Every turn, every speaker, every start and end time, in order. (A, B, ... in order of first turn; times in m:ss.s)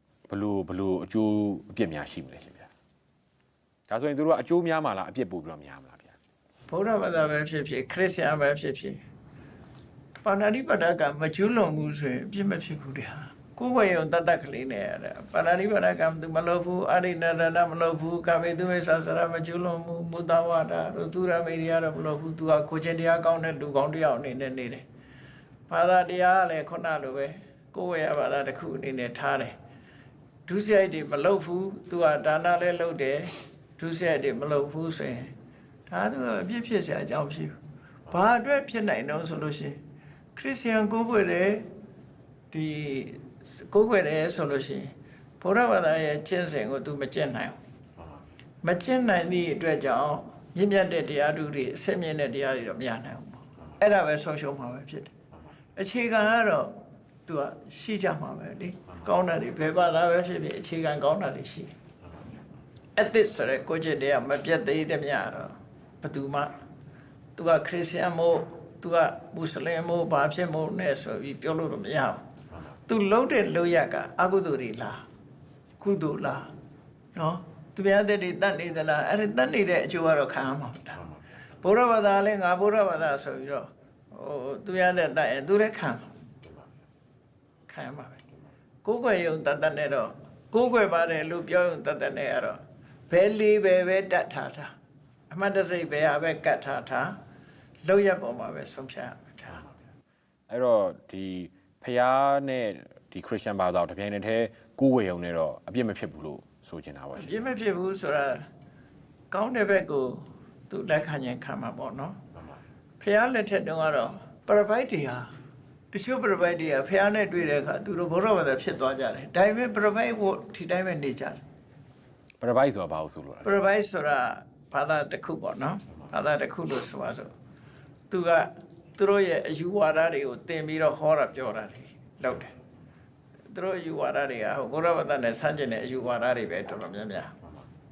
0:00.3-0:02.7 A
0:03.9-0:06.1 A
0:06.7-0:09.0 B
0:10.2-0:24.8 B
0:25.7-0:29.5 B
0:30.4-0:35.3 B
0:35.9-0:37.6 B
0:38.1-0:39.8 B
0:40.3-0:41.7 B
0:42.5-0:47.6 B
0:48.6-0:55.1 B
0:55.8-1:01.7 B
1:03.0-1:06.5 B
1:07.4-1:12.2 B
1:12.9-1:15.0 B
1:15.8-1:16.5 B
1:17.1-1:21.1 B
1:21.6-1:26.1 B
1:27.7-1:28.2 B
1:28.8-1:34.7 B
1:35.3-1:37.1 B
1:37.8-1:39.6 B
1:40.5-1:47.6 A
1:47.2-1:48.4 B
1:49.3-1:52.2 B
1:53.0-1:55.3 B
1:55.9-2:01.4 B
2:02.4-2:03.5 A
2:03.4-2:07.3 B
2:08.1-2:12.5 B
2:13.5-2:17.3 B